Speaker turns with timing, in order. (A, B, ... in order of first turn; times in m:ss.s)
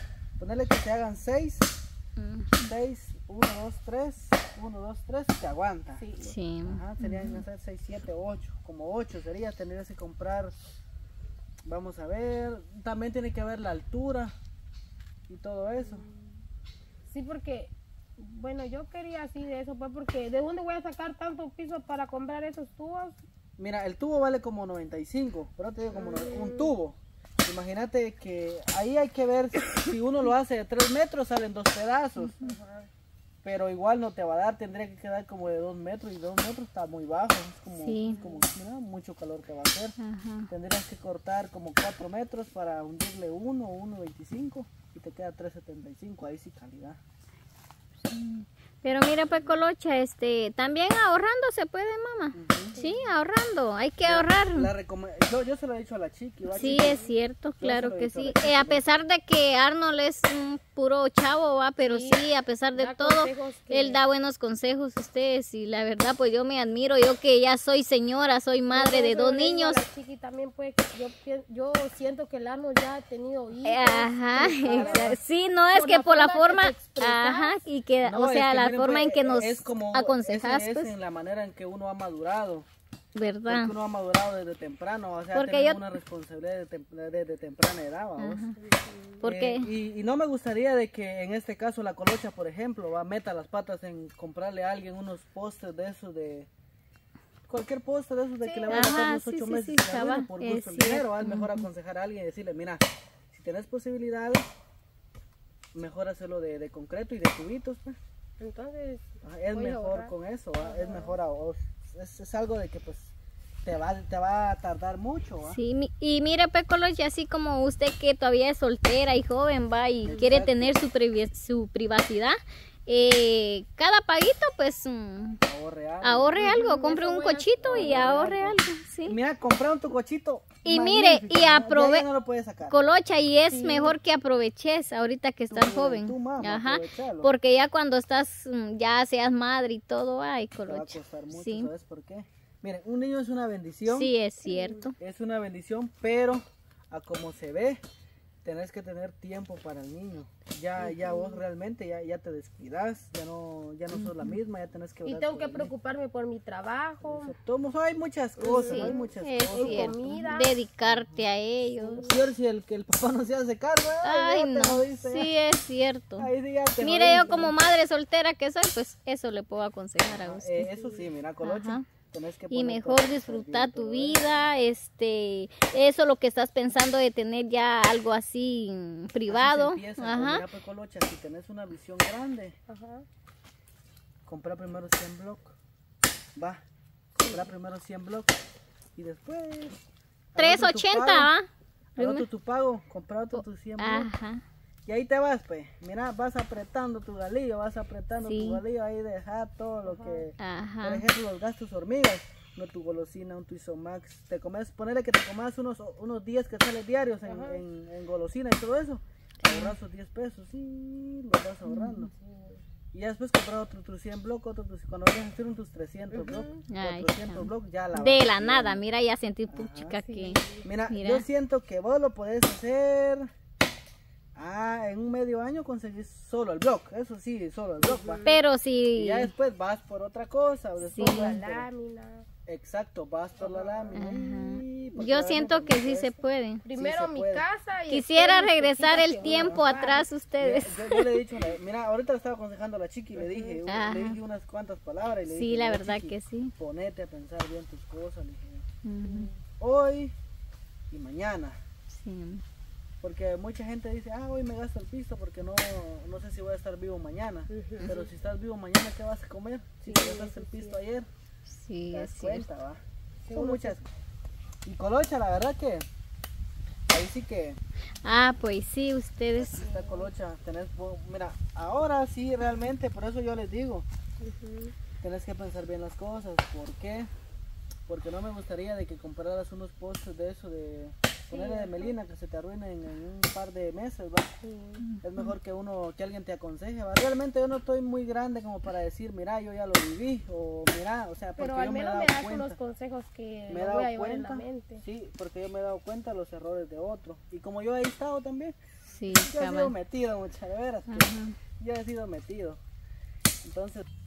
0:00.4-0:01.7 A
0:02.2-0:02.6 B
0:02.6-0:06.0 A
0:06.0-0:06.4 C
0:06.2-0:07.4 B
0:06.6-0:10.5 A
0:11.6-0:14.3 A
0:15.3-0:16.0 A
0:15.8-0:16.2 C
0:17.1-0:23.2 C
0:23.6-0:32.4 A
0:25.9-0:26.7 C
0:32.4-0:32.9 C
0:33.4-0:40.0 A
0:37.7-0:38.2 B
0:38.0-0:38.4 C
0:40.0-0:40.5 B
0:40.5-0:47.0 A
0:48.1-0:54.7 B
0:49.3-0:49.6 A
0:52.3-0:52.8 A
0:52.7-0:53.1 C
0:54.0-0:57.0 A
0:56.5-0:57.1 C
0:56.5-1:09.8 B
0:57.6-0:58.8 A
1:01.8-1:02.2 C
1:02.8-1:04.0 C
1:08.7-1:15.1 C
1:13.6-1:20.9 B
1:14.4-1:15.2 A
1:15.7-1:17.5 C
1:18.0-1:22.7 A
1:23.1-1:23.7 B
1:23.4-1:28.4 A
1:25.3-1:25.8 B
1:28.2-1:28.6 B
1:28.6-1:29.2 C
1:29.2-1:29.7 B
1:29.2-1:36.5 A
1:37.5-1:44.5 A
1:38.4-1:39.0 C
1:38.7-1:41.6 B
1:45.7-1:47.9 A
1:48.4-1:51.2 C
1:49.2-1:53.1 A
1:53.6-1:55.6 A
1:55.4-2:05.4 B
2:00.0-2:00.8 A
2:00.0-2:00.4 C
2:05.4-2:06.5 A
2:06.0-2:09.2 B
2:06.4-2:08.0 C
2:07.6-2:12.7 A
2:10.6-2:12.0 B
2:12.7-2:21.7 B
2:13.5-2:14.0 C
2:15.5-2:17.3 A
2:20.6-2:24.1 A
2:23.9-2:24.9 B
2:24.4-2:24.9 C
2:25.0-2:27.8 A
2:28.4-2:35.7 A
2:30.8-2:31.4 C
2:33.9-2:34.4 B
2:35.0-2:37.3 C
2:37.0-2:40.2 A
2:38.4-2:40.5 C
2:38.6-2:42.1 B
2:40.8-2:41.2 A
2:41.8-2:42.2 C
2:42.0-2:45.3 A
2:44.0-2:46.3 B
2:46.2-2:47.6 A
2:46.8-2:50.7 B
2:47.0-2:47.5 C
2:50.2-2:54.5 A
2:50.7-2:51.1 C
2:51.4-2:51.8 B
2:52.5-3:00.4 B
2:59.3-3:02.6 A
3:02.7-3:03.0 C
3:04.2-3:05.5 A
3:06.4-3:06.6 A
3:07.2-3:08.3 A
3:09.0-3:09.8 A
3:10.3-3:11.3 A
3:10.4-3:12.2 B
3:12.0-3:14.1 A
3:13.3-3:14.4 B
3:14.8-3:32.1 A
3:18.2-3:18.6 B
3:19.9-3:20.3 C
3:20.4-3:21.0 B
3:27.2-3:27.6 C
3:29.4-3:29.7 B
3:31.6-3:32.0 B
3:32.1-3:32.6 C
3:32.9-3:38.8 A
3:36.1-3:36.6 C
3:36.7-3:41.2 B
3:39.5-3:40.0 A
3:40.0-3:40.7 C
3:40.6-3:43.3 A
3:44.4-3:48.3 A
3:47.8-3:48.4 C
3:48.2-3:49.3 B
3:49.0-3:51.7 A
3:50.8-3:51.4 B
3:50.9-3:52.2 C
3:52.4-3:56.2 A
3:53.4-3:54.0 C
3:54.0-3:56.6 B
3:56.6-4:00.1 C
3:56.7-3:57.4 A
3:57.9-4:01.2 B
3:59.2-3:59.7 A
4:00.4-4:08.6 A
4:03.2-4:03.6 C
4:03.7-4:04.2 B
4:05.3-4:06.5 B
4:08.8-4:09.3 B
4:09.0-4:09.4 C
4:09.6-4:10.1 A
4:10.9-4:11.6 A
4:11.9-4:12.4 B
4:13.0-4:21.1 A
4:17.5-4:17.9 C
4:19.8-4:20.8 C
4:21.5-4:22.4 B
4:21.9-4:23.8 A
4:23.2-4:23.8 C
4:24.6-4:25.8 A
4:26.9-4:27.6 A
4:28.0-4:29.6 B
4:29.4-4:33.9 A
4:29.4-4:30.1 C
4:34.2-4:34.7 C
4:35.0-4:37.1 A
4:37.9-4:44.3 A
4:41.3-4:41.9 C
4:44.4-4:44.8 C
4:44.8-4:45.4 B
4:45.0-4:52.6 A
4:51.4-4:54.8 C
4:53.5-4:58.6 A
4:58.9-4:59.7 B
4:59.1-5:02.6 A
5:00.9-5:01.4 B
5:03.4-5:03.9 A